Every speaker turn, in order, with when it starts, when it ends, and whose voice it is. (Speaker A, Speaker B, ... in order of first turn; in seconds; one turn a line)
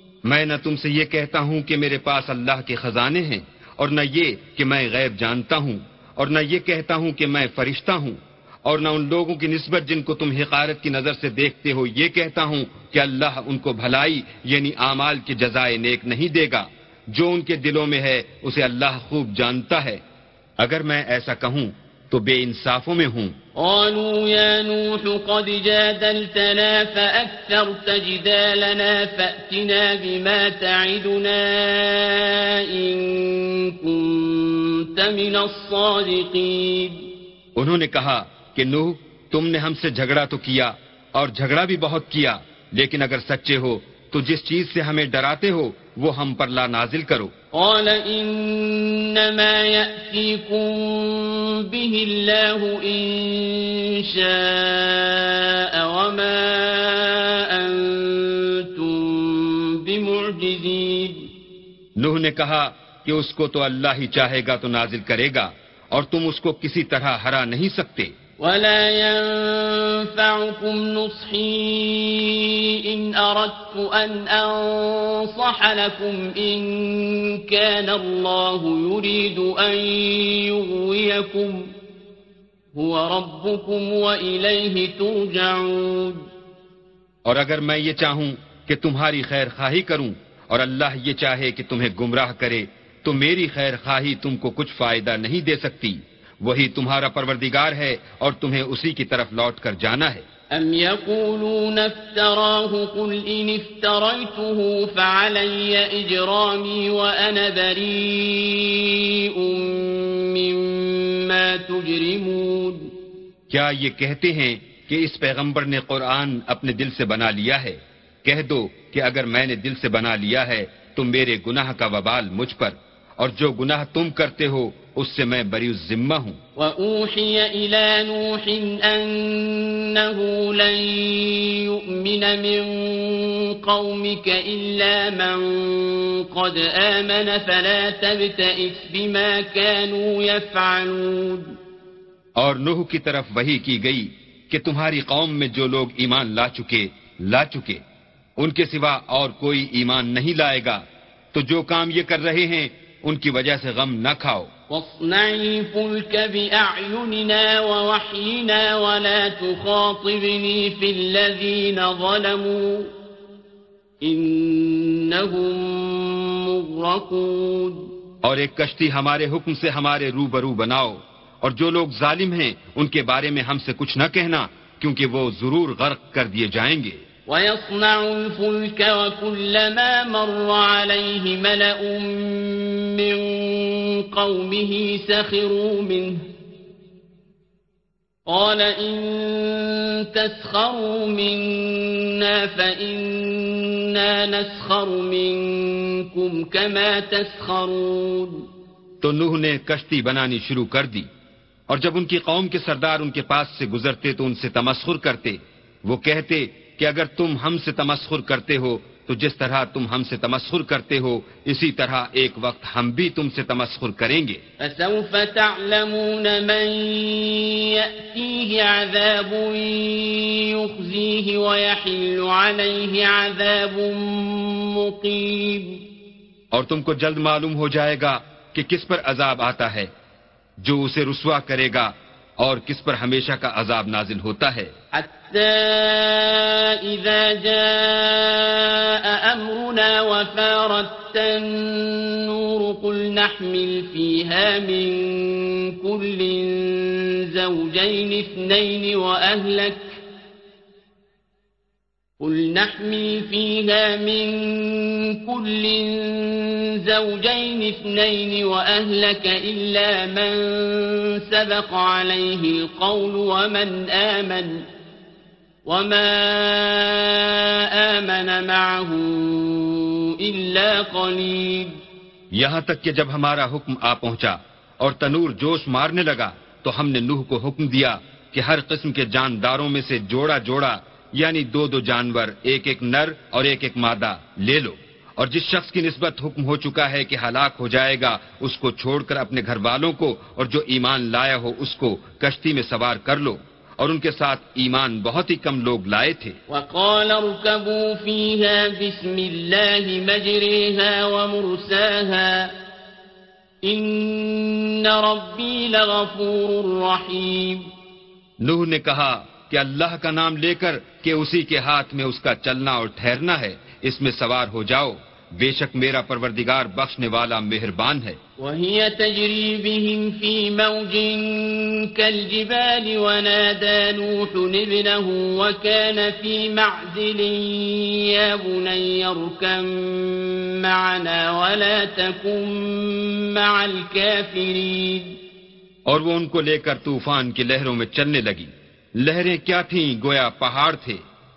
Speaker A: 0.2-20.0
Speaker A: 20.6-23.4
Speaker B: 23.6-37.0
Speaker A: 37.5-47.3
Speaker B: 47.5-61.3
Speaker A: 62.0-68.1
Speaker B: 68.4-81.7
Speaker B: 82.7-86.2
Speaker A: 87.2-100.2
Speaker B: 100.5-112.9
Speaker A: 113.5-126.4
Speaker B: 126.5-141.5
Speaker A: 142.4-147.8
Speaker A: 148.4-150.8
Speaker A: 151.3-154.5
Speaker B: 154.7-162.9
Speaker B: 164.0-167.9
Speaker A: 168.2-177.0
Speaker B: 177.3-186.2
Speaker B: 188.3-198.4
Speaker A: 199.0-201.1
Speaker A: 201.7-214.4
Speaker B: 214.6-225.8
Speaker A: 226.5-229.9
Speaker A: 230.6-234.7
Speaker B: 234.9-250.0
Speaker B: 252.2-264.6
Speaker B: 265.6-271.8
Speaker A: 272.3-296.4
Speaker B: 296.5-302.5
Speaker B: 303.6-307.7
Speaker A: 308.4-318.2
Speaker B: 318.4-335.1
Speaker A: 335.9-341.0